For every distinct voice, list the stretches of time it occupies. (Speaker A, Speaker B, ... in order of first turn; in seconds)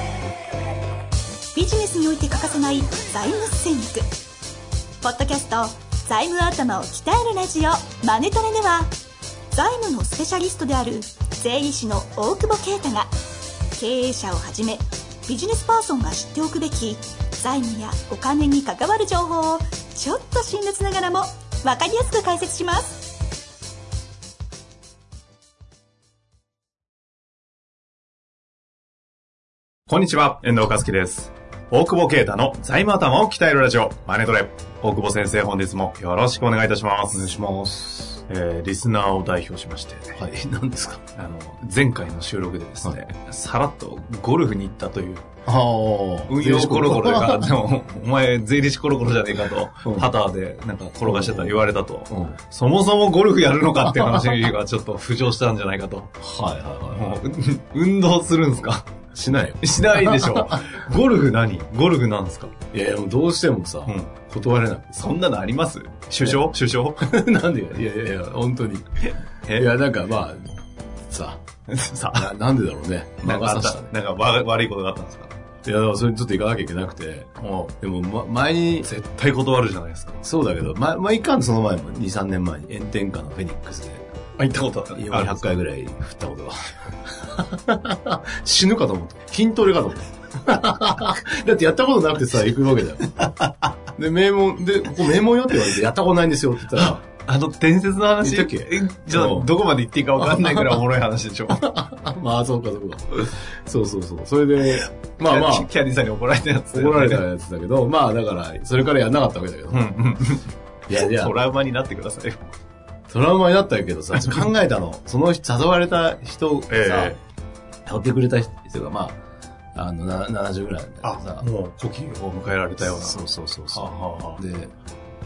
Speaker A: 1.5-4.1, 5.0-8.9, 9.5-13.1, 13.7-23.2
Speaker B: 29.9-37.3, 38.3-40.2, 41.2-45.3, 46.3-56.1, 56.9-58.9, 59.6-62.5, 63.9-64.1, 65.0-67.0, 69.5-69.7, 71.7-72.3, 73.2-75.3, 77.4-77.7, 78.8-80.2, 84.4-85.5, 93.2-93.7, 96.8-101.7, 104.7-107.2, 109.7-112.4, 116.7-117.2, 121.0-123.2, 123.7-124.4
Speaker C: 37.1-38.2, 40.1-41.0, 45.5-47.5, 49.9-50.1, 51.0-52.4, 53.8-54.4, 56.2-57.2, 59.1-60.6, 62.7-65.1, 67.0-70.5, 71.1-71.4, 72.1-73.9, 75.7-77.3, 77.8-78.9, 80.2-84.1, 84.9-93.1, 94.0-97.0, 98.2-99.5, 100.2-100.8, 101.5-105.7, 106.7-110.0, 110.9-111.3, 113.1-117.2, 117.9-119.2, 119.8-121.5, 122.8-124.7